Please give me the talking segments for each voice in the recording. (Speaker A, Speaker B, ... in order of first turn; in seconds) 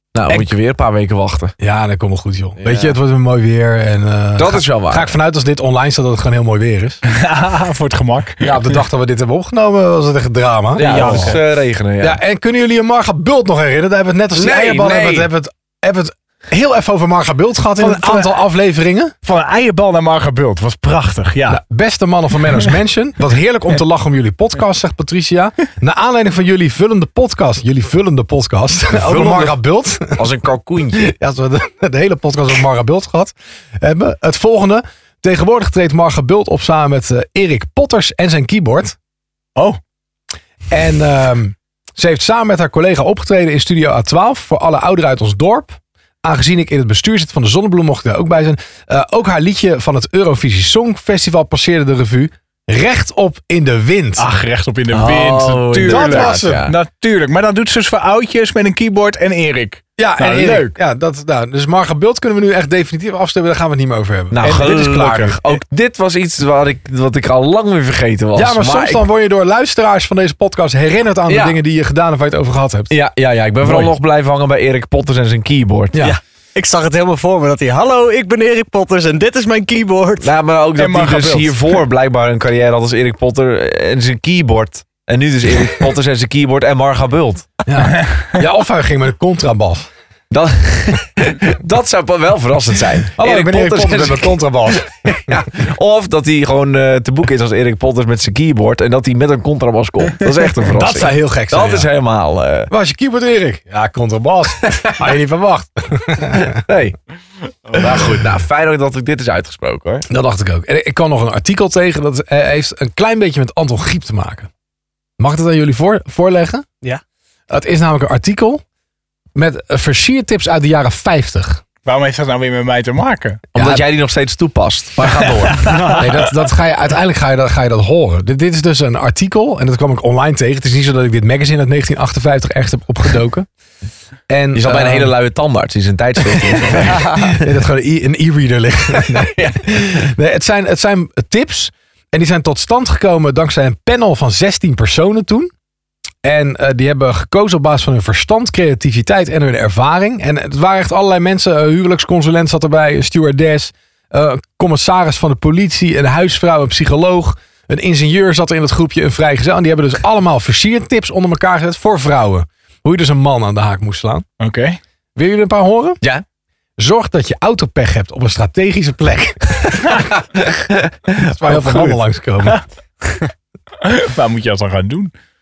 Speaker A: 0.1-1.5, 2.6-3.0, 4.4-5.1, 10.7-12.2, 14.3-15.3, 28.9-31.1, 54.9-56.8, 64.3-69.0, 71.3-71.6, 72.9-76.1, 80.2-87.5, 90.3-102.7, 106.3-107.0, 107.7-110.1, 123.5-125.9, 134.5-137.5, 138.9-140.1, 170.3-171.2
Speaker B: 1.6-7.0, 8.4-11.3, 12.0-19.1, 21.5-30.2, 31.0-39.0, 40.7-54.2, 55.8-56.6, 60.0-65.5, 68.3-72.9, 73.6-73.9, 87.7-89.9, 93.2-94.8, 100.6-101.9, 102.7-106.6, 110.1-114.5, 115.2-116.6, 117.5-118.6, 119.3-121.6, 123.5-123.8, 126.0-133.5, 134.3-135.1, 136.5-145.5, 146.2-164.2, 165.2-166.0, 166.8-170.1, 171.2-172.6
Speaker C: 7.1-8.7, 10.8-11.4, 17.8-18.4, 19.2-21.6, 54.2-60.7, 80.8-81.6, 88.0-88.4, 121.8-123.4, 125.2-126.1, 164.4-164.8, 173.8-175.1
Speaker D: 76.0-80.3